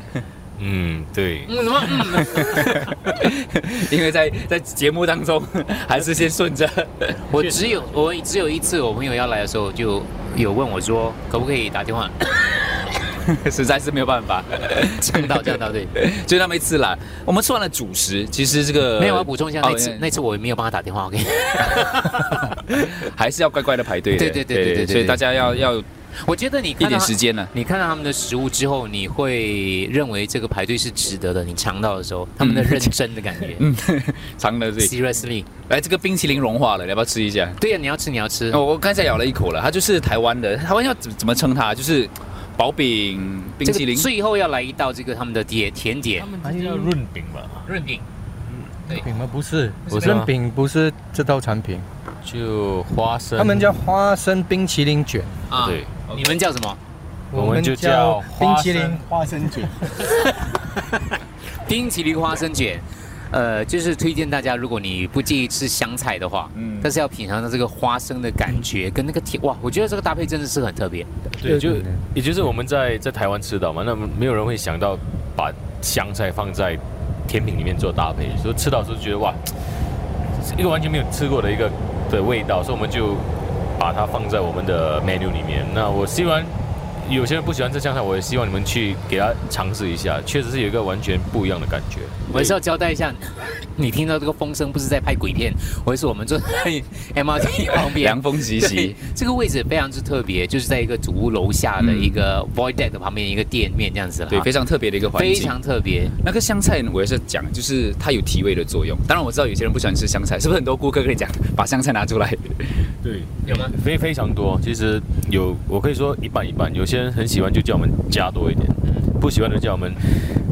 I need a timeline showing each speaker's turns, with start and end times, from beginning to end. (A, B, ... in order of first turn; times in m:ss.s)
0:00.6-0:01.5 A
0:01.4-0:02.9 B
0:02.4-0:07.2 C
0:07.3-0:12.4 B
0:07.4-0:07.8 A
0:13.2-0:15.4 C
0:14.9-0:15.9 B
0:15.9-0:20.0 C
0:19.0-0:22.6 B
0:22.4-0:25.8 C
0:24.1-0:25.2 B
0:26.2-0:33.6 B
0:26.8-0:27.5 C
0:32.4-0:32.9 C
0:33.6-0:34.9 C
0:34.8-0:35.5 B
0:35.7-0:37.6 C
0:37.6-0:38.6 B
0:38.5-0:44.1 C
0:43.6-0:46.3 B
0:46.2-0:47.7 A
0:46.4-0:46.9 D
0:47.6-0:48.0 B
0:48.9-0:51.8 D
0:49.9-0:50.3 A
0:52.2-0:53.7 A
0:53.4-0:55.4 D
0:55.5-0:56.8 B
0:55.6-0:55.9 A
0:57.3-0:59.9 D
0:57.3-0:59.0 A
1:00.1-1:11.1 B
1:06.5-1:06.9 C
1:11.3-1:19.5 A
1:11.4-1:12.0 D
1:20.4-1:32.5 A
1:32.3-1:44.5 B
1:37.8-1:39.0 C
1:41.8-1:42.2 C
1:44.3-1:45.6 C
1:45.1-1:46.2 B
1:46.2-1:52.9 C
1:53.0-2:00.1 A
1:53.4-1:53.7 B